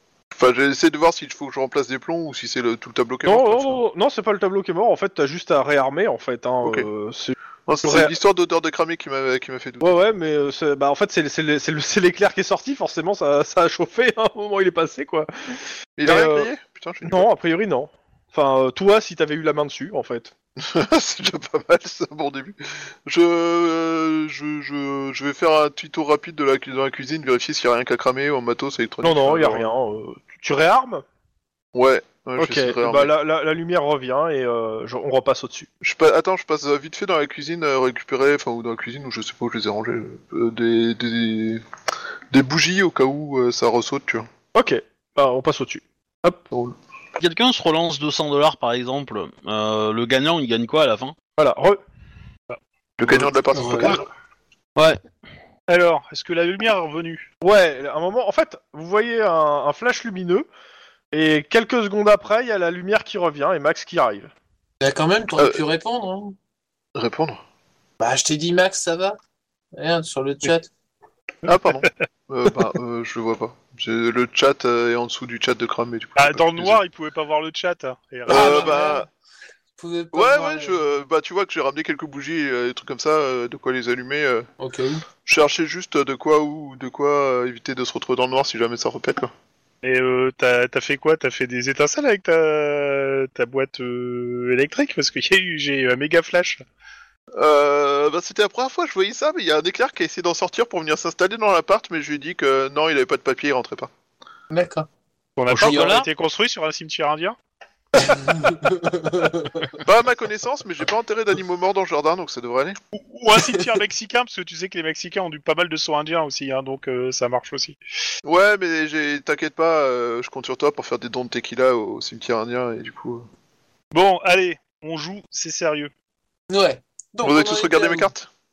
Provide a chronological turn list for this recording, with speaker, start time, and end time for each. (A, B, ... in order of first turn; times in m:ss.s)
0:00.3-0:03.8 A
0:03.3-0:08.1 B
0:07.7-0:10.0 A
0:09.8-0:16.5 B
0:16.0-0:17.3 A
0:17.0-0:20.3 B
0:20.6-0:29.7 A
0:29.0-0:31.0 B
0:31.7-0:33.1 A
0:32.4-0:35.7 B
0:35.8-0:41.6 A
0:42.3-0:44.3 A
0:44.5-0:46.5 B
0:47.2-0:51.1 C
0:51.4-0:51.8 B
0:53.0-0:54.0 A
0:53.5-0:54.0 D
0:54.8-0:55.0 C
0:55.7-0:57.3 E
0:57.4-1:00.5 B
1:01.1-1:04.3 B
1:04.8-1:06.4 D
1:05.4-1:05.6 A
1:07.0-1:07.4 A
1:08.0-1:09.2 D
1:09.7-1:10.7 D
1:11.4-1:16.8 A
1:11.6-1:11.9 E
1:16.2-1:18.8 E
1:18.3-1:19.1 A
1:18.3-1:19.0 D
1:19.8-1:20.8 D
1:20.1-1:24.5 A
1:24.6-1:25.0 D
1:25.2-1:29.3 A
1:29.8-1:36.6 E
1:37.3-1:43.9 A
1:44.5-1:44.9 D
1:45.4-1:47.4 E
1:45.5-1:46.1 C
1:48.0-1:49.8 D
1:49.8-1:52.8 A
1:52.9-1:57.8 E
1:53.4-1:53.6 D
1:58.2-2:03.3 A
2:03.9-2:05.9 E
2:06.5-2:08.1 D
2:07.2-2:08.3 A